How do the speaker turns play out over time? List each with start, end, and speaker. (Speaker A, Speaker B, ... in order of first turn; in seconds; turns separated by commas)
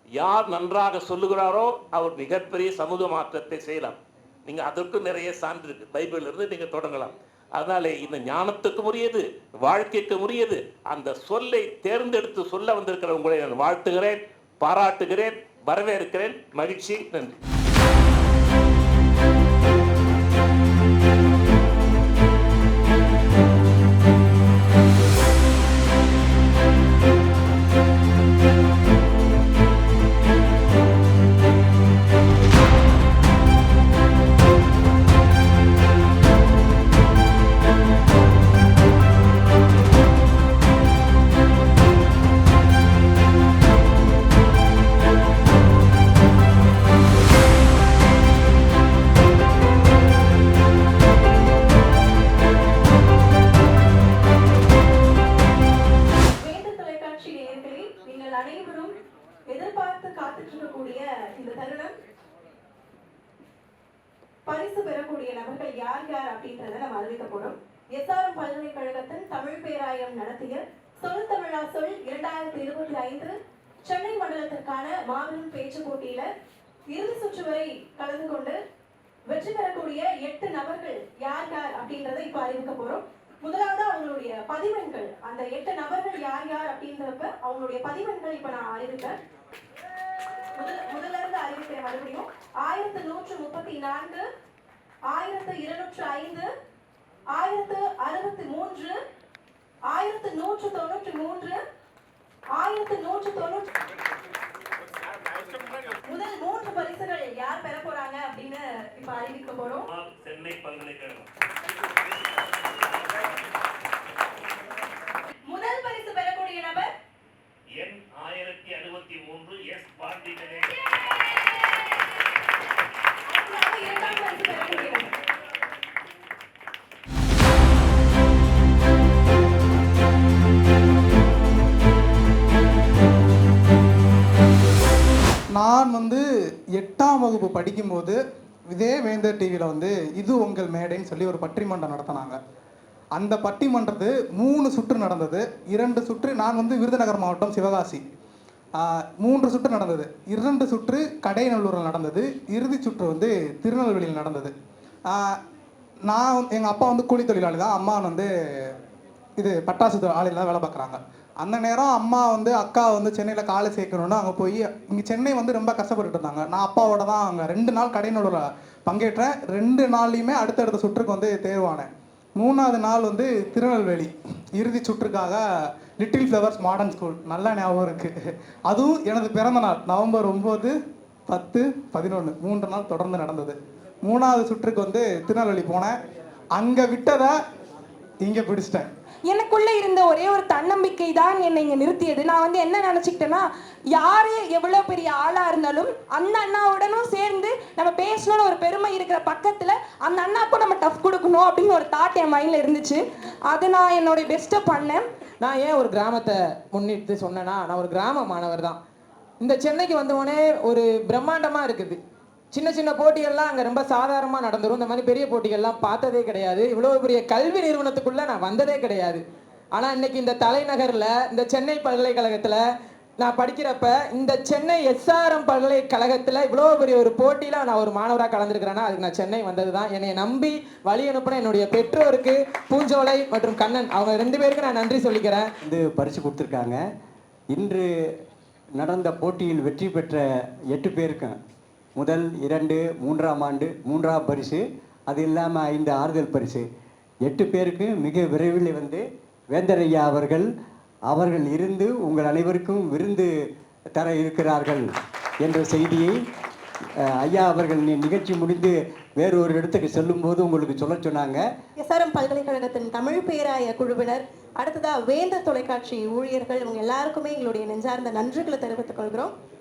Speaker A: 0.2-17.3, Speaker B: 56.4-58.9, Speaker B: 59.5-61.9, Speaker B: 64.5-73.3, Speaker B: 73.8-76.3, Speaker B: 76.9-78.6, Speaker B: 79.3-89.1, Speaker B: 90.6-94.2, Speaker B: 95.1-96.5, Speaker B: 97.3-98.9, Speaker B: 99.9-101.6, Speaker B: 102.5-103.7, Speaker B: 106.1-109.8, Speaker A: 109.9-111.3, Speaker B: 115.5-116.9, Speaker A: 117.8-120.8, Speaker B: 123.3-125.1, Speaker A: 124.1-124.9, Speaker C: 135.5-136.2, Speaker C: 136.8-138.2, Speaker C: 138.7-142.4, Speaker C: 143.2-148.0, Speaker C: 148.8-154.5, Speaker C: 156.1-158.3, Speaker C: 159.4-175.4, Speaker C: 176.0-178.1, Speaker C: 178.7-180.7, Speaker C: 181.3-185.9, Speaker C: 186.6-187.3, Speaker C: 188.2-188.9, Speaker D: 189.3-205.0, Speaker E: 205.4-208.8, Speaker E: 209.4-212.0, Speaker E: 212.5-219.2, Speaker E: 219.8-222.6, Speaker E: 223.2-235.4, Speaker F: 235.6-236.8, Speaker F: 237.5-237.9, Speaker F: 238.8-241.4, Speaker F: 241.9-246.7, Speaker F: 247.2-250.5, Speaker F: 251.1-253.3, Speaker F: 253.9-254.9, Speaker F: 255.4-256.2, Speaker F: 257.0-261.4, Speaker B: 261.8-269.3